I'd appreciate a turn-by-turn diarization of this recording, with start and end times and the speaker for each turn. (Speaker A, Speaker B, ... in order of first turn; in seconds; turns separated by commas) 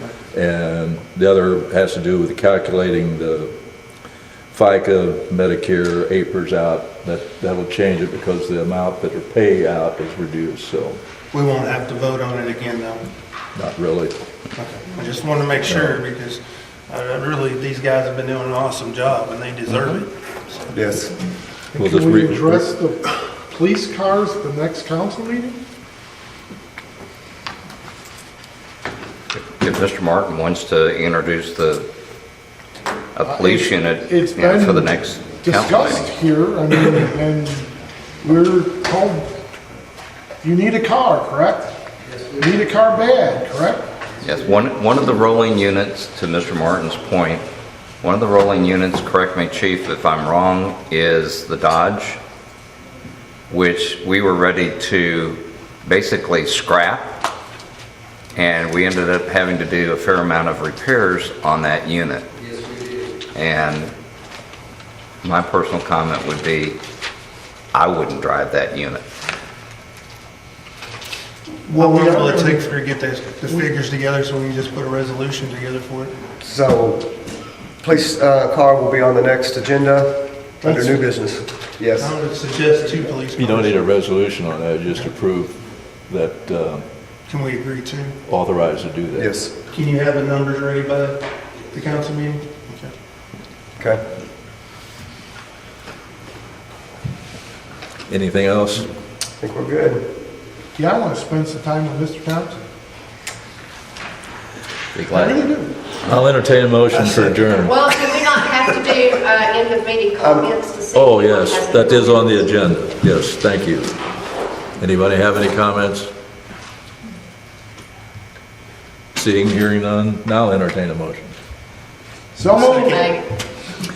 Speaker A: 0.3-3.5, Speaker A: 4.5-11.0, Speaker B: 11.3-13.1, Speaker A: 13.5-14.2, Speaker B: 14.6-20.7, Speaker A: 15.7-16.0, Speaker C: 20.7-21.1, Speaker D: 21.7-25.6, Speaker A: 21.8-22.6, Speaker E: 29.5-31.9, Speaker E: 33.1-36.1, Speaker D: 33.2-39.3, Speaker D: 40.4-41.8, Speaker D: 42.4-43.9, Speaker E: 44.2-47.5, Speaker E: 48.0-52.2, Speaker E: 53.5-57.2, Speaker E: 58.3-62.2, Speaker E: 63.3-63.9, Speaker E: 65.2-66.8, Speaker E: 67.7-69.0, Speaker B: 71.7-76.1, Speaker D: 71.7-72.7, Speaker C: 76.4-77.2, Speaker C: 77.8-82.2, Speaker B: 82.0-83.8, Speaker A: 83.3-86.8, Speaker B: 87.3-88.2, Speaker A: 88.3-89.3, Speaker C: 89.1-89.5, Speaker B: 89.7-92.9, Speaker C: 93.8-94.0, Speaker A: 98.1-98.9, Speaker C: 99.4-100.1, Speaker D: 100.7-102.6, Speaker E: 104.9-105.5, Speaker D: 105.1-105.7, Speaker A: 106.0-107.8, Speaker F: 107.5-112.6, Speaker C: 110.2-110.5, Speaker A: 110.9-114.0, Speaker A: 114.8-116.1, Speaker A: 119.1-121.3, Speaker D: 122.3-123.1, Speaker F: 122.5-123.3